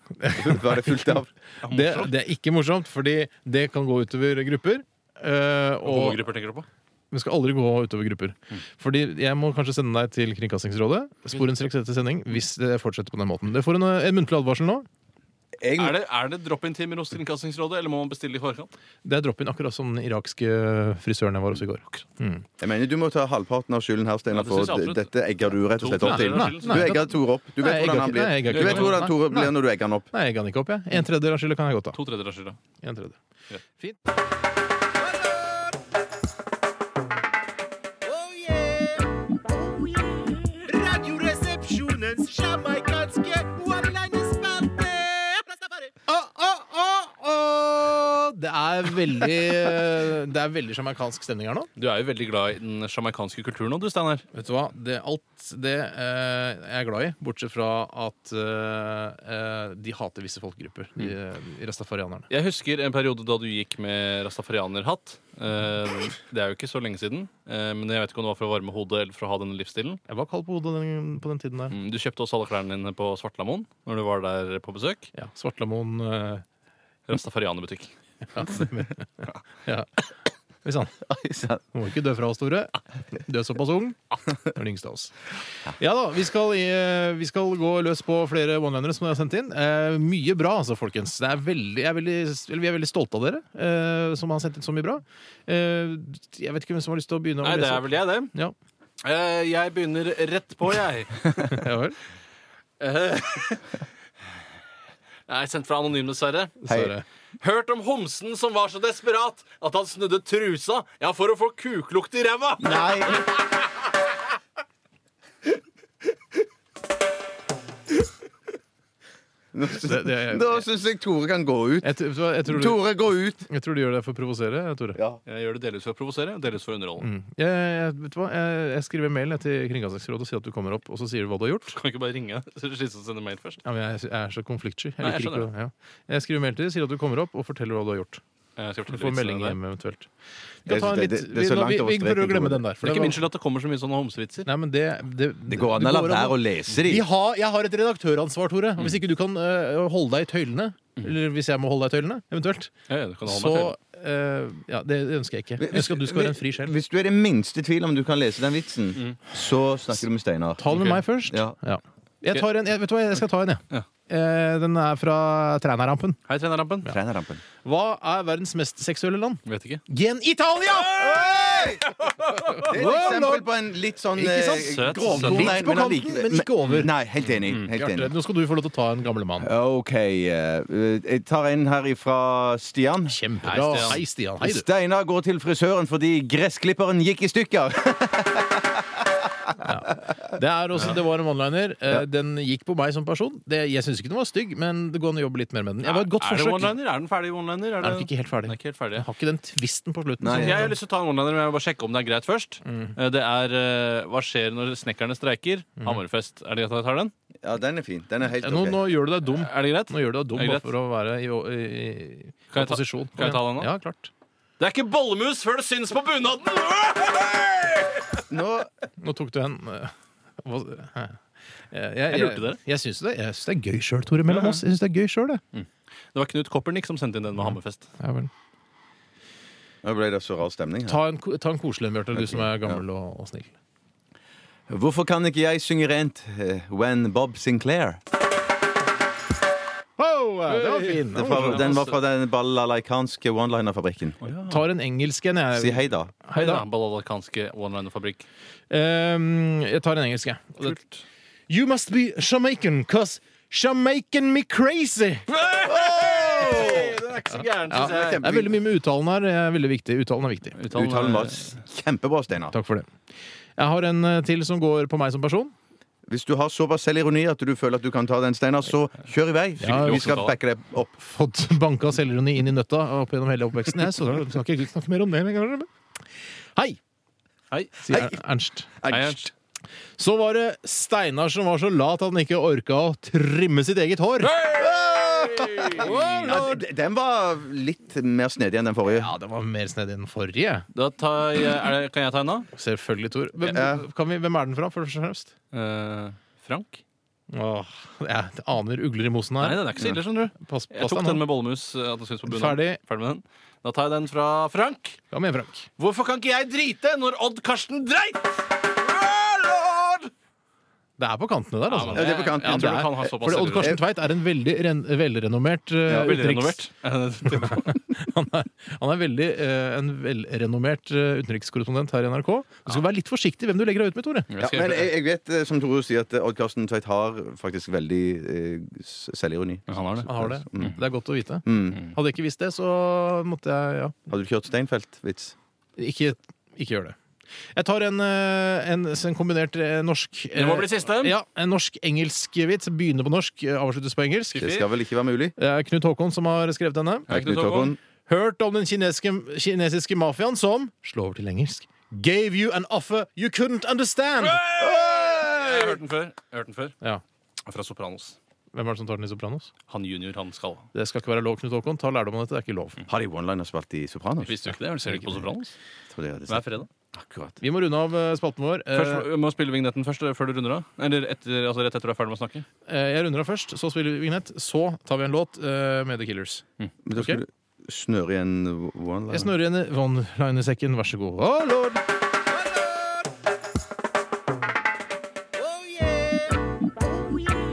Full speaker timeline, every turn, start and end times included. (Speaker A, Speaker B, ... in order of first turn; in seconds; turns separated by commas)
Speaker A: 0.2-1.1, Speaker B: 0.3-1.3, Speaker C: 1.6-2.1, Speaker A: 1.6-6.2, Speaker C: 5.8-6.7, Speaker A: 7.1-14.8, Speaker B: 15.6-16.0, Speaker C: 15.8-18.7, Speaker A: 19.0-22.4, Speaker B: 22.6-30.1, Speaker C: 24.3-25.1, Speaker C: 25.7-26.9, Speaker A: 26.0-29.5, Speaker C: 28.5-28.9, Speaker A: 30.1-32.0, Speaker C: 31.9-32.6, Speaker A: 32.8-33.2, Speaker D: 38.0-45.9, Speaker A: 46.0-51.7, Speaker C: 51.8-54.2, Speaker A: 54.3-62.3, Speaker C: 62.3-70.0, Speaker A: 70.1-71.7, Speaker C: 71.7-75.1, Speaker A: 75.1-76.4, Speaker C: 77.1-78.7, Speaker A: 78.3-79.0, Speaker A: 79.6-79.9, Speaker A: 80.6-81.0, Speaker B: 81.0-81.6, Speaker A: 81.7-85.2, Speaker A: 85.7-98.5, Speaker C: 97.4-98.3, Speaker C: 99.0-101.6, Speaker A: 101.4-102.0, Speaker C: 102.8-103.8, Speaker C: 105.3-106.6, Speaker A: 106.6-107.0, Speaker B: 106.7-106.9, Speaker C: 107.4-113.4, Speaker B: 112.6-113.2, Speaker B: 119.5-123.4, Speaker A: 119.7-120.6, Speaker A: 121.8-122.8, Speaker A: 123.4-125.0, Speaker B: 124.9-125.2, Speaker C: 125.2-127.1, Speaker A: 127.0-131.8, Speaker C: 131.7-133.6, Speaker A: 133.6-138.2, Speaker C: 135.0-135.5, Speaker C: 138.6-139.6, Speaker A: 138.9-140.1, Speaker A: 140.6-143.2, Speaker B: 140.7-142.6, Speaker C: 142.8-144.5, Speaker A: 144.4-152.7, Speaker B: 145.5-147.0, Speaker C: 152.9-153.7, Speaker A: 153.2-156.7, Speaker B: 155.6-160.6, Speaker A: 160.6-166.2, Speaker C: 160.7-161.0, Speaker B: 161.3-161.5, Speaker C: 166.3-166.9, Speaker B: 166.8-167.4, Speaker A: 167.6-171.7, Speaker C: 169.4-169.8, Speaker B: 170.9-171.8, Speaker C: 172.0-172.6, Speaker A: 172.3-173.5, Speaker B: 172.6-178.1, Speaker A: 174.1-176.9, Speaker C: 174.5-175.6, Speaker A: 177.6-179.5, Speaker B: 179.4-183.1, Speaker A: 183.1-184.7, Speaker C: 183.4-184.0, Speaker B: 183.7-188.8, Speaker A: 189.6-196.8, Speaker C: 195.8-199.0, Speaker A: 197.8-200.8, Speaker B: 200.2-200.7, Speaker C: 200.2-207.1, Speaker A: 202.7-202.9, Speaker B: 207.4-208.8, Speaker A: 208.3-214.1, Speaker C: 209.2-210.7, Speaker C: 212.5-213.7, Speaker C: 214.6-218.2, Speaker B: 218.3-218.7, Speaker A: 219.0-221.2, Speaker A: 221.7-225.4, Speaker C: 222.1-222.6, Speaker C: 224.3-224.6, Speaker C: 225.5-227.8, Speaker A: 228.0-228.3, Speaker B: 229.8-231.0, Speaker A: 230.8-233.5, Speaker B: 232.1-232.8, Speaker B: 234.7-238.0, Speaker A: 240.0-241.8, Speaker C: 240.5-242.0, Speaker B: 241.1-244.2, Speaker C: 244.2-244.6, Speaker A: 244.5-246.6, Speaker B: 245.5-246.1, Speaker C: 246.3-248.2, Speaker A: 248.7-250.8, Speaker C: 250.6-251.0, Speaker A: 251.5-255.3, Speaker C: 255.3-258.3, Speaker B: 255.6-257.0, Speaker A: 257.7-260.6, Speaker B: 257.8-258.5, Speaker C: 260.5-261.6, Speaker B: 260.7-262.5, Speaker A: 262.5-262.9, Speaker A: 263.6-265.5, Speaker B: 266.1-270.9, Speaker A: 269.6-270.2, Speaker C: 269.6-270.3, Speaker A: 270.9-275.7, Speaker C: 277.5-278.0, Speaker A: 277.8-278.7, Speaker B: 278.8-279.2, Speaker C: 278.9-279.3, Speaker A: 280.0-284.4, Speaker C: 284.3-286.3, Speaker B: 284.5-289.1, Speaker A: 285.5-286.6, Speaker A: 288.9-290.6, Speaker C: 290.7-292.5, Speaker A: 292.5-295.3, Speaker B: 293.5-293.8, Speaker C: 295.5-296.8, Speaker A: 297.3-301.2, Speaker C: 299.4-305.0, Speaker A: 302.2-302.8, Speaker A: 305.1-305.7, Speaker C: 305.8-310.1, Speaker A: 311.0-316.7, Speaker C: 311.7-313.8, Speaker B: 311.9-313.0, Speaker B: 313.5-313.8, Speaker B: 315.9-316.1, Speaker C: 315.9-317.8, Speaker A: 317.3-324.3, Speaker C: 324.3-324.9, Speaker B: 324.4-330.8, Speaker C: 329.7-330.1, Speaker A: 330.1-334.0, Speaker B: 331.4-331.8, Speaker B: 334.1-335.3, Speaker A: 335.8-336.9, Speaker A: 337.5-344.6, Speaker C: 340.3-341.1, Speaker C: 344.3-344.7, Speaker B: 344.3-345.3, Speaker A: 345.4-347.1, Speaker C: 347.1-347.8, Speaker B: 347.1-347.8, Speaker A: 348.1-354.4, Speaker C: 354.2-356.8, Speaker B: 354.6-355.8, Speaker C: 357.4-358.1, Speaker A: 358.5-359.5, Speaker C: 359.7-360.7, Speaker A: 360.7-362.8, Speaker B: 362.9-364.5, Speaker C: 364.2-365.5, Speaker A: 364.9-365.2, Speaker B: 365.9-367.4, Speaker C: 366.3-366.7, Speaker A: 367.4-369.1, Speaker C: 368.7-372.4, Speaker A: 372.6-376.4, Speaker B: 376.8-379.3, Speaker A: 379.1-381.8, Speaker D: 385.4-386.4